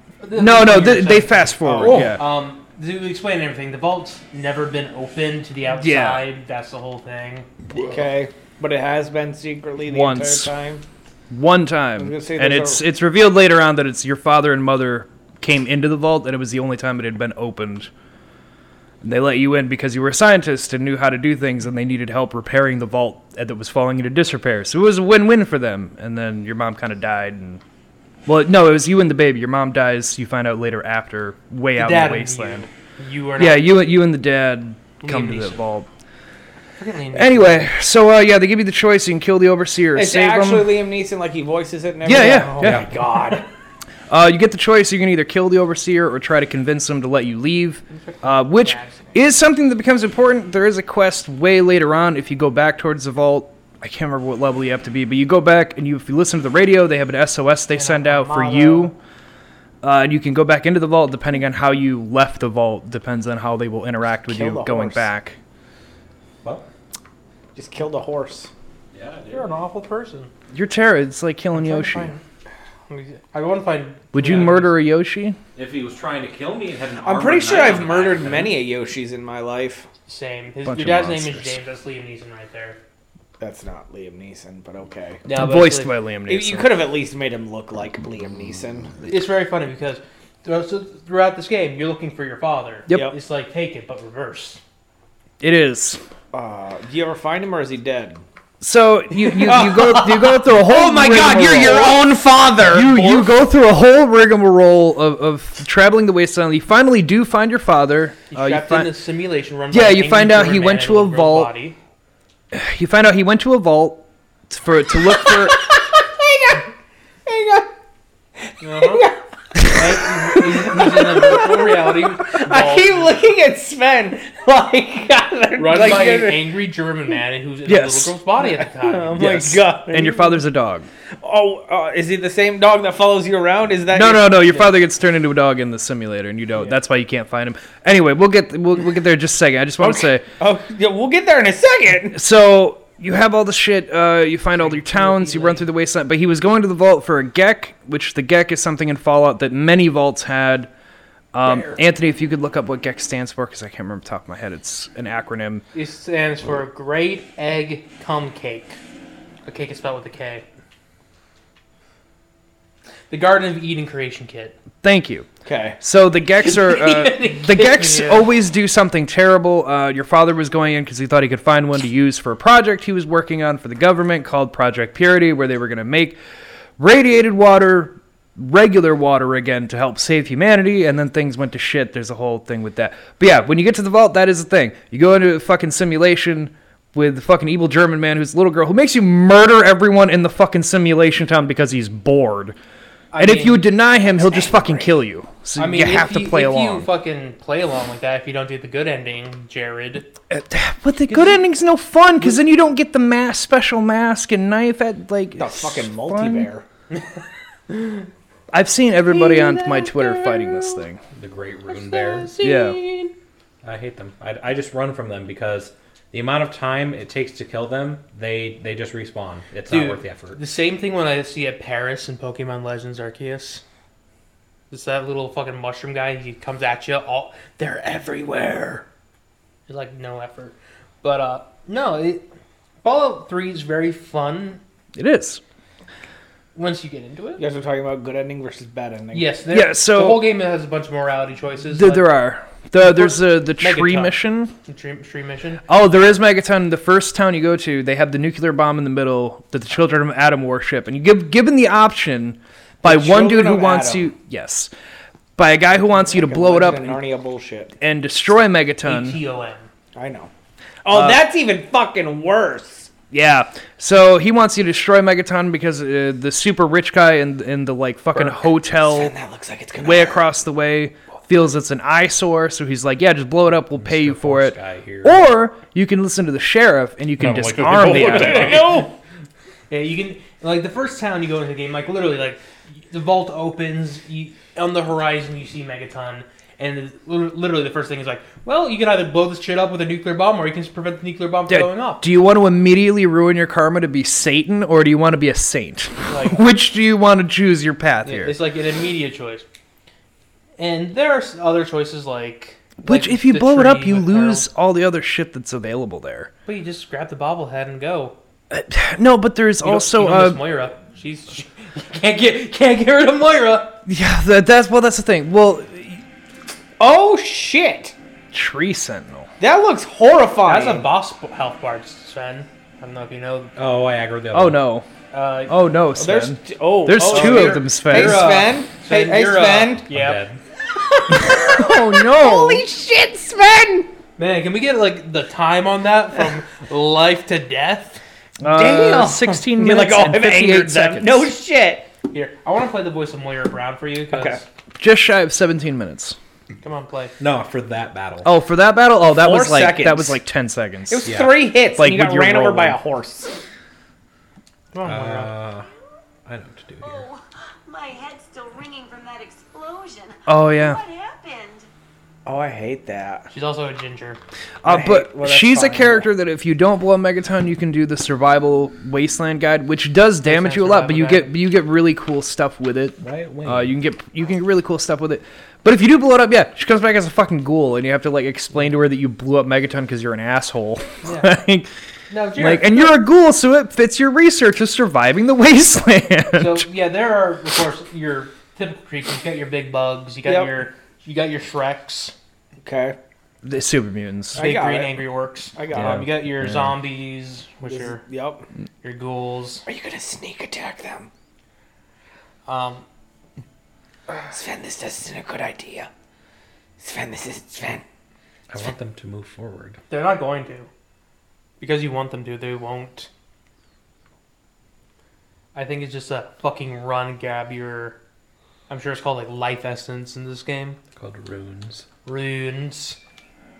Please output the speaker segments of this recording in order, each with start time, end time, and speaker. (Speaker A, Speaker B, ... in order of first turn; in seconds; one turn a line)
Speaker A: 0.2-7.5
Speaker B: 0.3-2.2
Speaker C: 1.6-2.1
Speaker B: 5.7-6.2
Speaker C: 7.8-10.8
Speaker B: 9.8-10.5
Speaker B: 11.3-17.9
Speaker C: 12.0-12.8
Speaker B: 19.0-27.6
Speaker B: 28.2-32.7
Speaker A: 31.8-33.8
Speaker B: 33.4-35.9
Speaker A: 35.0-35.6
Speaker A: 36.8-37.7
Speaker B: 37.1-40.8
Speaker C: 39.9-43.5
Speaker B: 42.0-42.9
Speaker D: 42.6-42.9
Speaker B: 44.1-59.0
Speaker A: 47.9-49.2
Speaker A: 57.7-58.9
Speaker B: 59.8-65.4
Speaker C: 64.3-65.0
Speaker C: 67.5-68.5
Speaker D: 68.9-69.5
Speaker A: 69.3-70.3
Speaker B: 70.5-72.1
Speaker A: 71.5-72.2
Speaker A: 72.9-74.8
Speaker B: 74.1-75.4
Speaker D: 75.5-78.6
Speaker C: 77.0-79.9
Speaker A: 80.1-82.8
Speaker B: 80.6-81.6
Speaker C: 83.4-85.2
Speaker A: 85.2-85.9
Speaker B: 85.3-86.8
Speaker C: 86.3-88.9
Speaker A: 89.1-94.6
Speaker B: 95.4-96.0
Speaker C: 96.3-98.2
Speaker B: 98.6-109.0
Speaker C: 99.2-103.3
Speaker A: 108.3-111.8
Speaker B: 109.7-111.5
Speaker B: 112.5-115.7
Speaker C: 115.1-116.7
Speaker C: 117.2-117.7
Speaker A: 118.6-119.0
Speaker C: 118.8-126.6
Speaker A: 119.7-123.1
Speaker A: 125.5-129.6
Speaker B: 127.7-128.1
Speaker C: 128.4-130.4
Speaker B: 129.2-130.9
Speaker C: 131.2-134.6
Speaker B: 133.9-140.2
Speaker C: 139.8-142.2
Speaker B: 142.1-150.7
Speaker A: 144.6-145.7
Speaker B: 151.3-155.6
Speaker C: 151.4-151.8
Speaker A: 155.7-158.8
Speaker A: 159.4-160.4
Speaker A: 163.1-164.6
Speaker B: 164.8-176.2
Speaker C: 165.4-165.8
Speaker A: 166.4-168.3
Speaker B: 176.8-192.6
Speaker A: 193.1-193.7
Speaker B: 193.2-196.9
Speaker C: 193.9-194.9
Speaker A: 195.6-200.1
Speaker B: 200.3-206.5
Speaker C: 205.4-206.6
Speaker A: 207.7-208.0
Speaker B: 208.5-211.0
Speaker A: 209.1-210.8
Speaker D: 211.1-212.3
Speaker A: 211.7-213.1
Speaker B: 212.4-212.8
Speaker D: 213.6-220.4
Speaker A: 219.7-223.6
Speaker A: 224.7-228.8
Speaker A: 229.7-232.3
Speaker A: 232.8-234.6
Speaker B: 234.9-235.4
Speaker A: 236.5-237.4
Speaker C: 237.4-239.3
Speaker A: 239.1-242.2
Speaker B: 239.5-240.2
Speaker B: 241.7-244.5
Speaker A: 242.8-245.6
Speaker B: 245.7-254.7
Speaker C: 252.8-254.1
Speaker B: 255.4-257.0
Speaker C: 255.9-257.7
Speaker B: 257.8-259.2
Speaker A: 258.8-259.7
Speaker C: 259.9-260.3
Speaker C: 260.8-262.9
Speaker B: 260.9-261.2
Speaker B: 263.1-269.1
Speaker C: 268.8-270.2
Speaker B: 269.8-278.8
Speaker D: 273.7-275.3
Speaker D: 277.2-278.8
Speaker C: 277.6-278.9
Speaker A: 278.2-278.7
Speaker A: 279.7-292.1
Speaker B: 291.5-298.4
Speaker A: 296.1-296.4
Speaker A: 298.0-299.4
Speaker A: 300.6-304.5
Speaker B: 302.8-306.3
Speaker A: 306.4-308.1
Speaker B: 308.5-310.4
Speaker A: 309.6-313.8
Speaker B: 313.9-316.0
Speaker C: 316.8-317.9
Speaker B: 318.3-319.3
Speaker C: 319.4-320.9
Speaker A: 320.4-323.5
Speaker D: 323.6-324.6
Speaker B: 324.3-324.9
Speaker A: 325.1-325.6
Speaker B: 325.5-328.3
Speaker C: 325.9-329.9
Speaker A: 327.0-330.2
Speaker D: 329.9-330.4
Speaker C: 330.9-333.9
Speaker B: 331.1-332.6
Speaker A: 334.2-338.0
Speaker B: 338.4-341.3
Speaker C: 338.4-341.9
Speaker A: 342.1-344.4
Speaker C: 344.1-344.4
Speaker B: 344.8-346.2
Speaker A: 346.6-347.1
Speaker D: 347.2-348.3
Speaker B: 348.2-352.8
Speaker C: 349.1-350.2
Speaker C: 350.9-353.4
Speaker D: 351.0-351.4
Speaker A: 354.7-355.3
Speaker D: 354.8-355.7
Speaker D: 356.2-357.1
Speaker E: 356.8-361.7
Speaker B: 360.2-360.8
Speaker C: 362.2-363.3
Speaker A: 363.3-364.2
Speaker B: 364.6-381.7
Speaker C: 364.6-366.1
Speaker A: 370.2-371.3
Speaker D: 373.0-373.7
Speaker A: 381.0-381.4
Speaker A: 382.1-382.9
Speaker B: 382.4-386.7
Speaker A: 386.3-392.1
Speaker C: 390.2-390.6
Speaker C: 392.6-393.0
Speaker B: 393.4-394.4
Speaker C: 394.3-396.1
Speaker A: 394.3-398.0
Speaker B: 395.7-396.8
Speaker C: 397.6-398.5
Speaker A: 398.8-399.6
Speaker C: 399.6-401.1
Speaker A: 402.4-402.8
Speaker C: 404.3-405.9
Speaker C: 406.8-407.8
Speaker D: 408.5-409.8
Speaker A: 409.9-410.7
Speaker A: 411.6-413.1
Speaker A: 415.5-418.0
Speaker A: 418.7-420.8
Speaker D: 420.9-421.9
Speaker A: 422.1-423.0